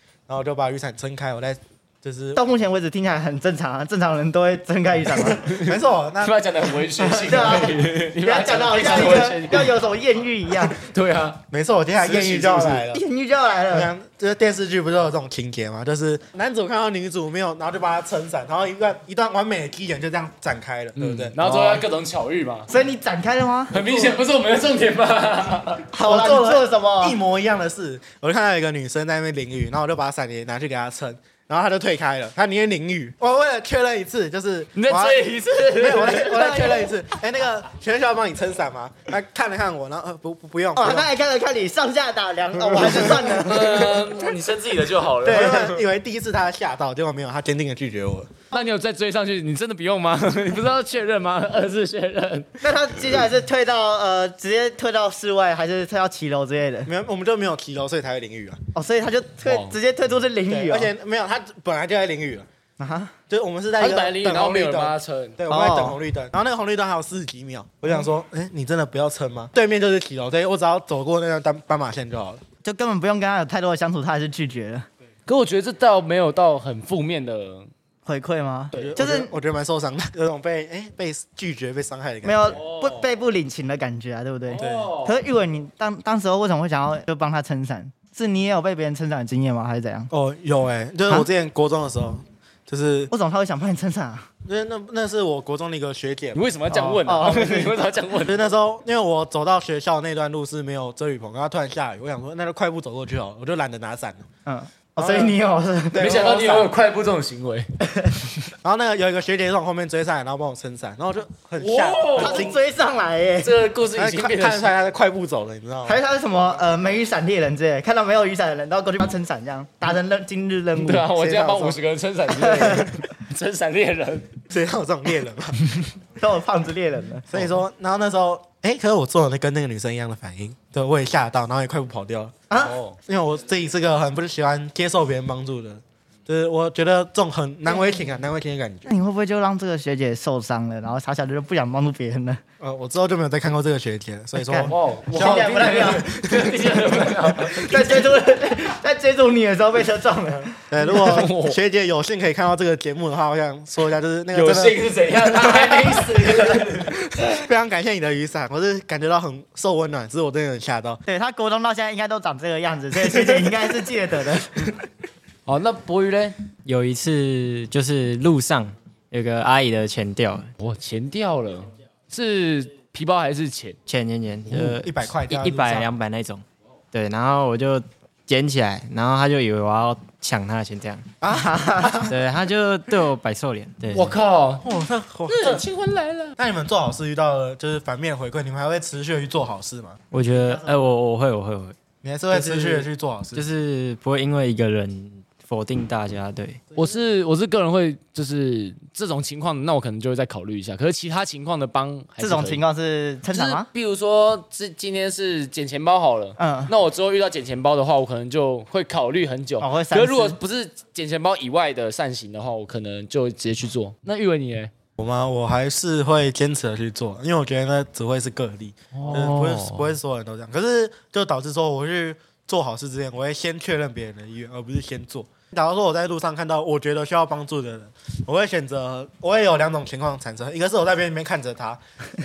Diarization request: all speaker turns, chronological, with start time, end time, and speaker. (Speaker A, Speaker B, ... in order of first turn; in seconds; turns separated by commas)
Speaker A: 0.3-2.4, Speaker B: 2.4-5.4, Speaker A: 5.1-6.4, Speaker C: 5.4-9.8, Speaker B: 7.0-10.8, Speaker C: 10.7-11.4, Speaker A: 11.5-13.0, Speaker C: 12.0-12.9, Speaker B: 12.9-13.9, Speaker A: 13.7-21.8, Speaker C: 21.0-22.7, Speaker B: 22.7-23.7, Speaker C: 23.7-25.9, Speaker A: 23.8-24.2, Speaker B: 25.9-27.2, Speaker A: 26.0-41.1, Speaker C: 34.8-36.8, Speaker B: 36.2-37.0, Speaker B: 40.8-44.0, Speaker A: 42.8-43.7, Speaker C: 43.0-45.8, Speaker A: 45.2-48.3, Speaker B: 45.3-45.7, Speaker C: 48.5-52.6, Speaker B: 52.6-56.9, Speaker A: 56.9-58.6, Speaker B: 58.7-60.9, Speaker C: 59.5-59.8, Speaker A: 60.5-62.5, Speaker B: 62.8-63.1, Speaker A: 63.3-72.4, Speaker C: 63.8-65.4, Speaker B: 65.5-66.0, Speaker B: 72.6-74.9, Speaker C: 75.3-77.7, Speaker B: 78.1-79.3, Speaker A: 78.7-82.6, Speaker B: 82.2-90.1, Speaker C: 82.5-83.1, Speaker C: 84.5-85.2, Speaker A: 84.6-84.9, Speaker A: 90.1-93.1, Speaker B: 93.1-94.3, Speaker A: 94.5-96.4, Speaker C: 96.3-98.5, Speaker B: 96.7-97.8, Speaker A: 98.2-104.3, Speaker B: 104.5-106.3, Speaker A: 105.0-105.4, Speaker A: 105.9-106.7, Speaker C: 105.9-107.7, Speaker B: 107.8-108.2, Speaker A: 108.6-112.6, Speaker C: 111.6-112.5, Speaker B: 112.2-113.6, Speaker C: 113.4-114.8, Speaker A: 114.0-116.0, Speaker B: 115.8-121.1, Speaker C: 120.8-124.3, Speaker A: 121.1-121.8, Speaker B: 122.3-123.0, Speaker A: 124.5-125.7, Speaker B: 126.2-127.5, Speaker A: 127.3-132.4, Speaker B: 132.5-132.8, Speaker C: 132.6-133.0, Speaker A: 133.0-138.9, Speaker B: 137.7-138.2, Speaker B: 138.9-142.4, Speaker A: 142.6-146.4, Speaker B: 144.3-146.2, Speaker C: 144.7-148.1, Speaker B: 146.8-151.2, Speaker A: 150.7-155.7, Speaker C: 150.8-151.6, Speaker C: 154.3-156.9, Speaker B: 155.4-156.7, Speaker A: 156.7-161.0, Speaker B: 161.1-164.8, Speaker A: 163.2-163.5, Speaker C: 165.5-166.4, Speaker D: 166.6-170.5, Speaker C: 170.6-173.8, Speaker D: 173.9-181.1, Speaker A: 174.5-175.9, Speaker B: 181.2-182.1, Speaker A: 181.2-182.1, Speaker D: 182.0-184.2, Speaker C: 183.9-184.7, Speaker A: 184.6-185.6, Speaker C: 185.3-186.3, Speaker A: 186.4-190.0, Speaker D: 190.1-191.8, Speaker B: 190.3-190.8, Speaker A: 192.0-193.4, Speaker D: 192.3-196.6, Speaker C: 196.8-202.6, Speaker B: 202.2-203.7, Speaker C: 203.3-214.7, Speaker B: 206.4-206.7, Speaker B: 209.6-210.4, Speaker A: 215.0-231.8, Speaker C: 218.9-219.9